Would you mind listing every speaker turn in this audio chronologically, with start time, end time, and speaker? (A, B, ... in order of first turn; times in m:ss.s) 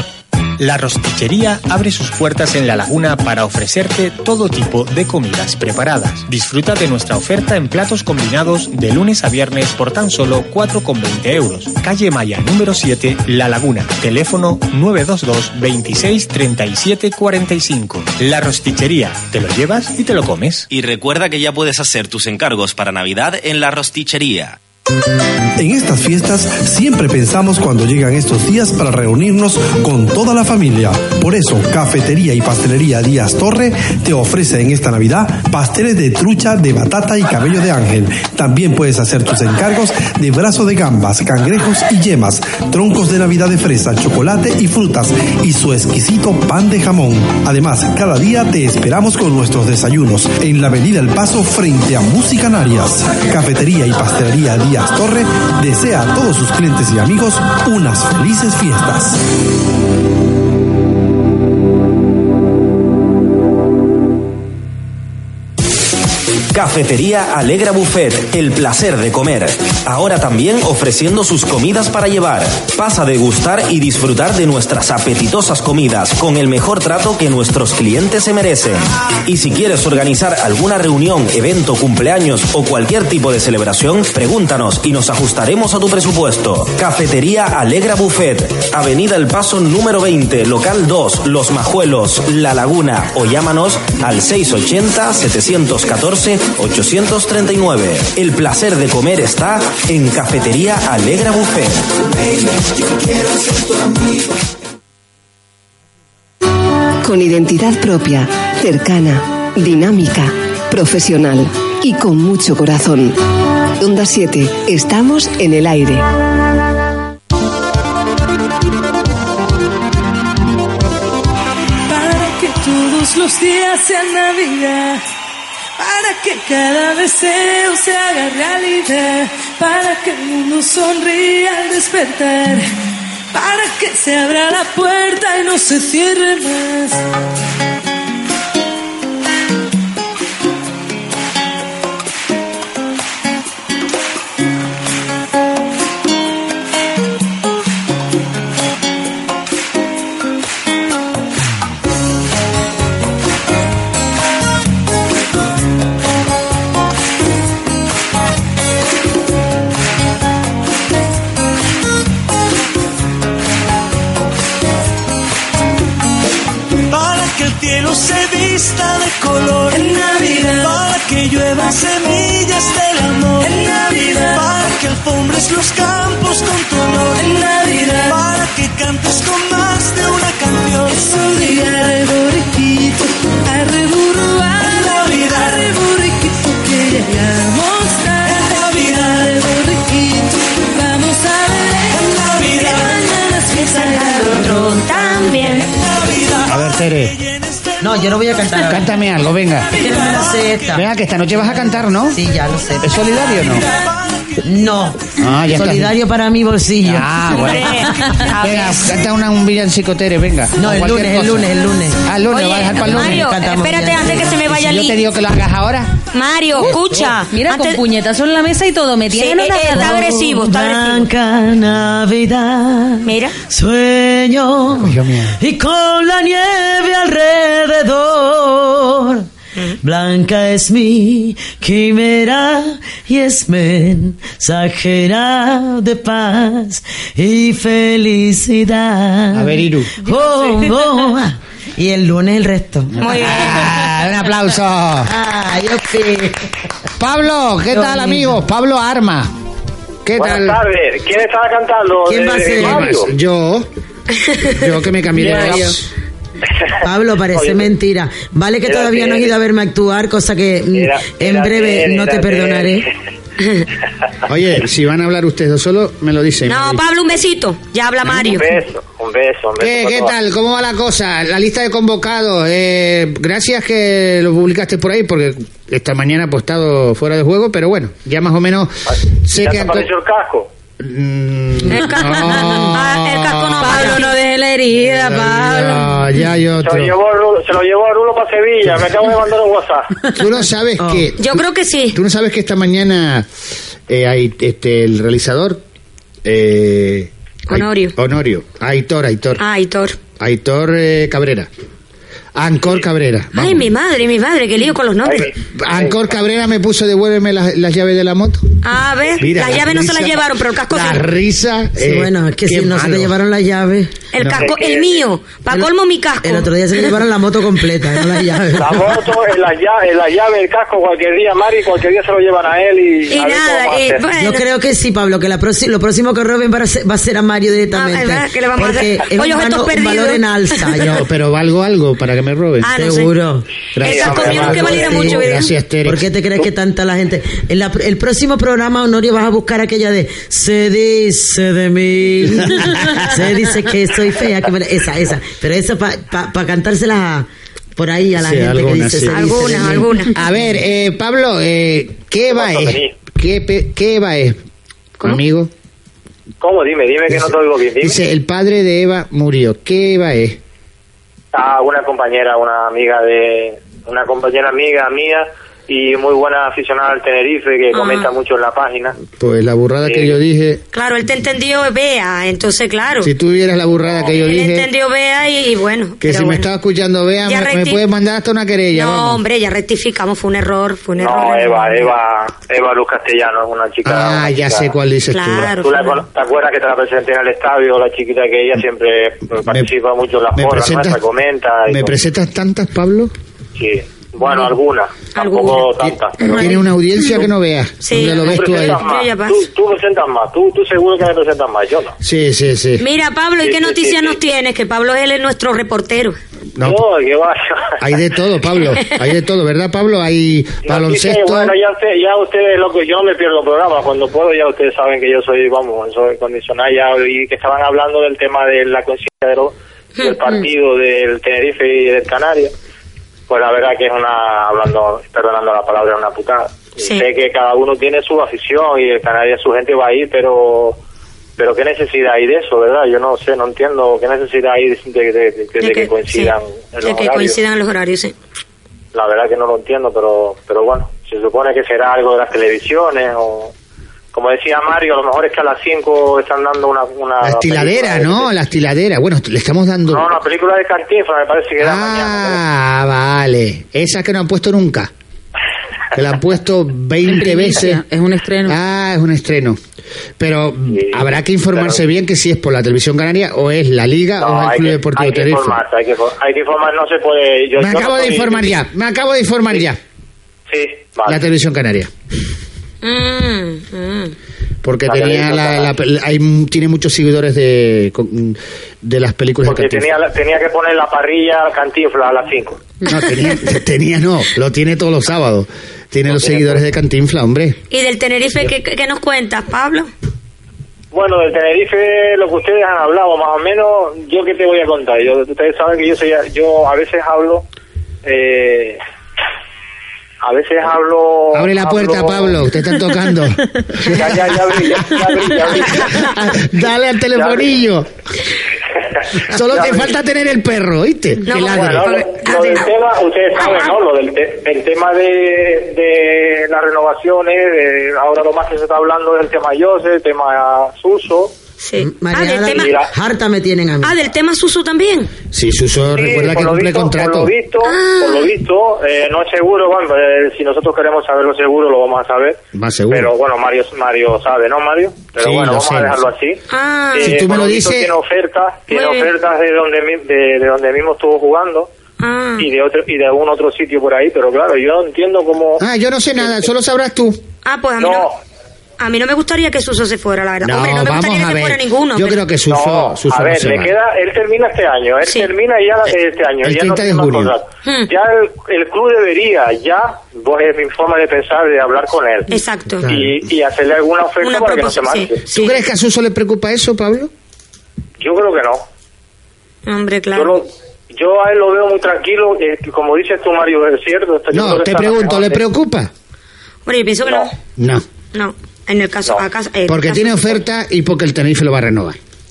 0:00.6-0:20.7 A
0:20.7-0:24.6 B
0:25.6-0:59.2 C
1:06.5-1:41.9 B
1:47.0-1:53.2 D
1:53.8-1:56.0 D
2:01.9-2:05.0 E
2:05.8-2:12.7 E
2:13.3-2:17.0 E
2:47.2-2:49.5 F
2:49.6-2:50.9 E
2:50.9-2:53.2 F
2:53.3-2:54.6 E
2:54.7-2:57.0 F
2:57.0-2:58.3 E
2:58.4-3:00.7 F
3:00.8-3:14.9 E
3:13.5-3:15.7 G
3:16.4-3:17.2 H
3:17.8-3:18.9 I
3:18.6-3:19.8 H
3:19.8-3:23.0 I
3:20.7-3:22.2 H
3:22.8-3:23.7 H
3:24.4-3:27.2 I
3:25.2-3:26.0 H
3:26.8-3:31.5 H
3:27.3-3:28.9 G
3:30.6-3:34.6 I
3:32.0-3:33.3 H
3:32.3-3:35.0 G
3:34.4-3:35.9 H
3:36.1-3:37.8 G
3:36.6-3:37.1 H
3:37.3-3:40.1 J
3:39.1-3:41.1 G
3:39.7-3:49.3 I
3:43.0-3:43.4 G
3:44.7-3:45.4 H
3:49.8-4:03.5 I
3:59.3-4:00.0 H
4:03.0-4:03.7 G
4:03.0-4:05.1 H
4:05.0-4:06.5 I
4:07.0-4:09.3 H
4:07.7-4:08.4 I
4:10.0-4:10.6 H
4:10.2-4:13.1 K
4:12.1-4:13.0 I
4:12.6-4:13.7 H
4:14.4-4:15.9 H
4:15.2-4:15.7 I
4:16.8-4:22.9 I
4:17.3-4:17.7 K
4:18.6-4:19.3 K
4:20.7-4:22.9 K
4:24.3-4:26.8 H
4:26.5-4:28.5 G
4:28.2-4:30.2 K
4:29.6-4:39.9 H
4:39.4-4:40.5 K
4:40.8-4:44.0 H
4:41.7-4:44.1 G
4:43.6-4:46.0 J
4:44.7-4:46.9 H
4:46.6-4:50.0 K
4:50.1-4:53.3 H
4:50.8-4:51.1 I
4:51.2-4:52.0 G
4:53.9-4:55.6 H
4:56.2-4:59.4 H
4:57.5-4:58.0 G
4:59.4-5:00.0 G
5:00.2-5:01.5 H
5:02.4-5:03.7 H
5:03.4-5:05.3 G
5:05.0-5:06.0 K
5:05.5-5:08.4 H
5:08.6-5:11.0 G
5:09.2-5:13.1 H
5:11.8-5:13.9 I
5:14.1-5:16.9 G
5:14.2-5:14.5 H
5:14.4-5:15.0 K
5:16.2-5:19.0 I
5:18.6-5:24.0 K
5:23.1-5:24.4 G
5:24.2-5:31.1 I
5:27.7-5:30.7 G
5:30.8-5:32.7 H
5:32.6-5:33.1 G
5:32.7-5:33.5 I
5:33.8-5:36.0 H
5:33.8-5:35.5 G
5:33.8-5:35.0 K
5:34.0-5:50.3 I
5:42.6-5:43.1 H
5:48.2-5:54.4 H
5:49.1-5:50.1 G
5:52.2-5:53.0 K
5:55.0-5:55.5 H
5:56.4-5:58.0 K
5:57.8-6:00.4 H
6:01.3-6:09.0 K
6:07.7-6:08.1 G
6:09.0-6:10.6 H
6:09.8-6:10.2 K
6:10.7-6:13.1 G
6:13.0-6:14.7 H
6:14.2-6:16.5 G
6:16.0-6:19.2 H
6:17.3-6:17.8 G
6:18.7-6:21.9 G
6:21.0-6:24.7 K
6:23.8-6:25.6 H
6:25.1-6:26.0 G
6:25.6-6:31.9 K
6:30.4-6:31.0 H
6:31.7-6:33.1 H
6:33.6-6:36.3 K
6:35.2-6:35.7 G
6:36.2-6:38.8 H
6:36.2-6:36.6 G
6:37.8-6:39.4 G
6:38.1-6:42.0 K
6:42.0-6:42.8 H
6:42.8-6:46.2 G
6:43.4-6:44.2 K
6:46.6-6:46.8 H
6:46.6-6:47.8 K
6:47.8-6:51.5 H
6:50.6-7:02.5 K
7:03.3-7:10.8 K
7:06.8-7:07.0 G
7:11.4-7:17.4 K
7:15.6-7:18.1 G
7:18.9-7:23.5 K
7:24.1-7:28.3 K
7:27.2-7:30.1 H
7:29.9-7:32.4 K
7:31.6-7:34.9 H
7:35.9-7:37.8 H
7:37.0-7:38.6 J
7:38.5-7:39.6 H
7:40.2-7:45.6 H
7:40.7-7:41.8 K
7:44.2-7:48.5 K
7:47.6-7:49.8 H
7:50.5-7:51.2 K
7:51.1-7:51.9 H
7:52.8-7:54.2 G
7:54.6-8:00.0 H
7:54.8-7:55.7 K
7:59.4-8:02.7 K
8:02.8-8:07.6 H
8:06.1-8:06.6 K
8:07.7-8:09.9 G
8:10.9-8:17.4 K
8:18.0-8:18.8 K
8:20.2-8:22.4 K
8:21.3-8:27.9 H
8:23.9-8:25.9 K
8:27.1-8:27.4 K
8:29.2-8:31.9 H
8:29.5-8:29.9 K
8:31.2-8:32.7 G
8:31.4-8:41.3 K
8:33.4-8:33.7 G
8:41.6-8:42.8 G
8:41.8-8:44.0 I
8:42.5-8:42.9 K
8:43.8-8:45.1 G
8:45.3-8:47.3 H
8:45.9-8:52.4 K
8:47.6-8:48.3 G
8:52.5-8:53.1 H
8:52.9-8:56.4 K
8:55.2-8:56.0 H
8:56.5-8:57.2 G
8:56.9-9:01.7 K
8:57.0-8:57.9 H
8:58.7-8:59.1 G
9:02.0-9:02.5 G
9:02.4-9:05.6 K
9:05.6-9:07.2 H
9:07.4-9:08.1 G
9:07.8-9:08.2 K
9:08.8-9:12.2 G
9:10.4-9:13.7 H
9:12.5-9:22.3 K
9:16.4-9:17.3 H
9:17.6-9:17.9 G
9:22.3-9:22.9 G
9:22.9-9:25.3 K
9:24.2-9:25.6 G
9:25.3-9:27.1 H
9:28.0-9:28.6 K
9:29.7-9:30.4 G
9:30.2-9:35.4 K
9:34.3-9:35.9 H
9:36.7-9:37.3 G
9:37.0-9:37.3 K
9:37.6-9:37.8 H
9:38.1-9:40.4 G
9:39.7-9:42.0 H